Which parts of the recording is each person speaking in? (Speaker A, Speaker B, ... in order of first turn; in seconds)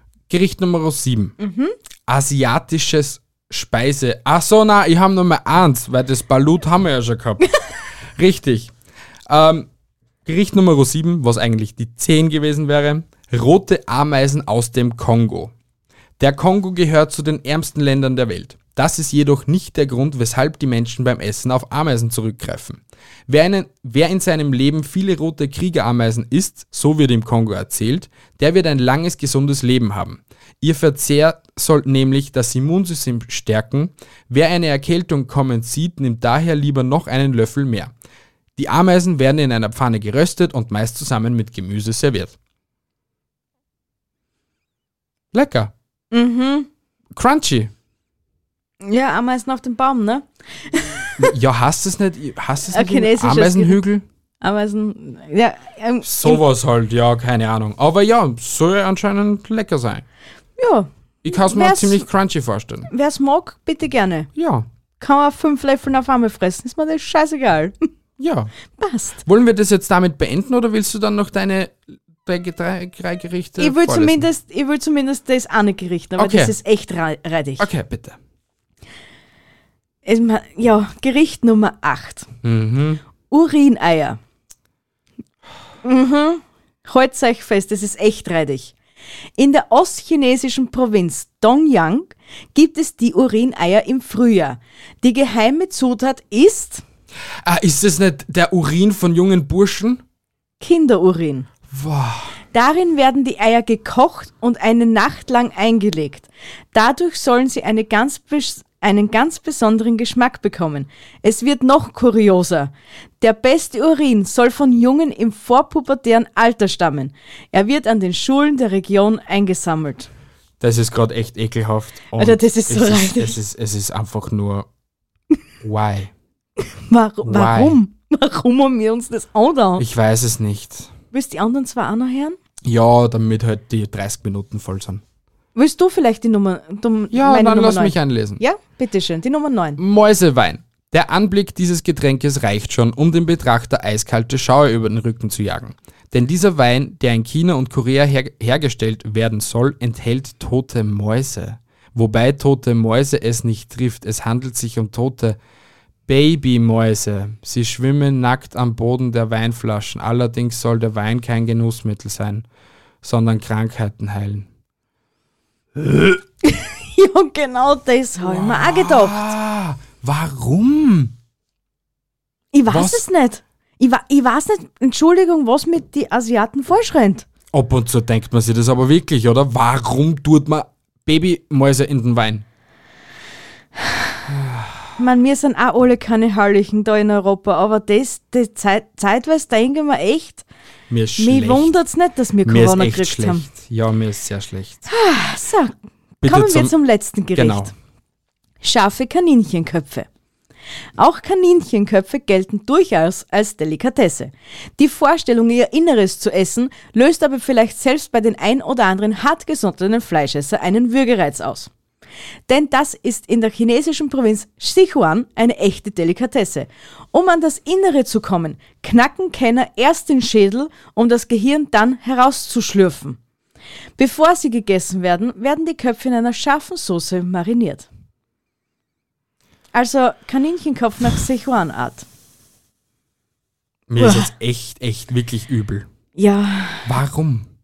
Speaker A: 0.3-1.4, 2.1-7.5, 8.2-8.7, 9.3-9.7, 10.2-15.5, 16.2-37.9, 38.6-42.4, 45.3-45.7, 47.1-47.7, 51.2-54.0, 56.0-60.0, 61.2-62.9, 64.4-64.7, 68.2-68.5, 69.2-74.3, 76.2-76.5, 77.6-78.2, 82.4-83.0, 97.4-100.0, 101.7-102.3, 120.6-124.7, 125.6-126.1, 127.2-127.8, 129.8-130.9, 132.6-135.0, 137.1-138.4, 139.8-155.4, 156.1-162.4, 163.0-164.5, 168.2-171.2, 172.7-173.1, 177.5-182.5, 184.3-184.7, 190.9-191.8, 192.4-194.8, 196.2-196.7, 197.3-197.7, 233.9-235.9, 236.9-237.5
Speaker B: 1.4-1.8, 46.1-46.7, 48.8-51.2, 52.7-53.8, 54.4-56.4, 60.6-62.1, 62.9-64.3, 65.0-67.7, 68.8-69.2, 73.6-77.7, 80.0-82.3, 83.3-84.2, 85.8-88.7, 89.4-96.8, 100.6-101.5, 102.5-120.1, 122.1-123.4, 126.9-129.9, 131.1-132.4, 135.6-139.8, 165.8-169.2, 172.5-177.3, 185.0-190.4, 191.2-193.5, 194.9-197.7, 198.6-200.1, 201.0-211.7, 212.5-223.2, 224.0-227.9, 229.7-232.1, 234.0-234.3, 236.2-236.9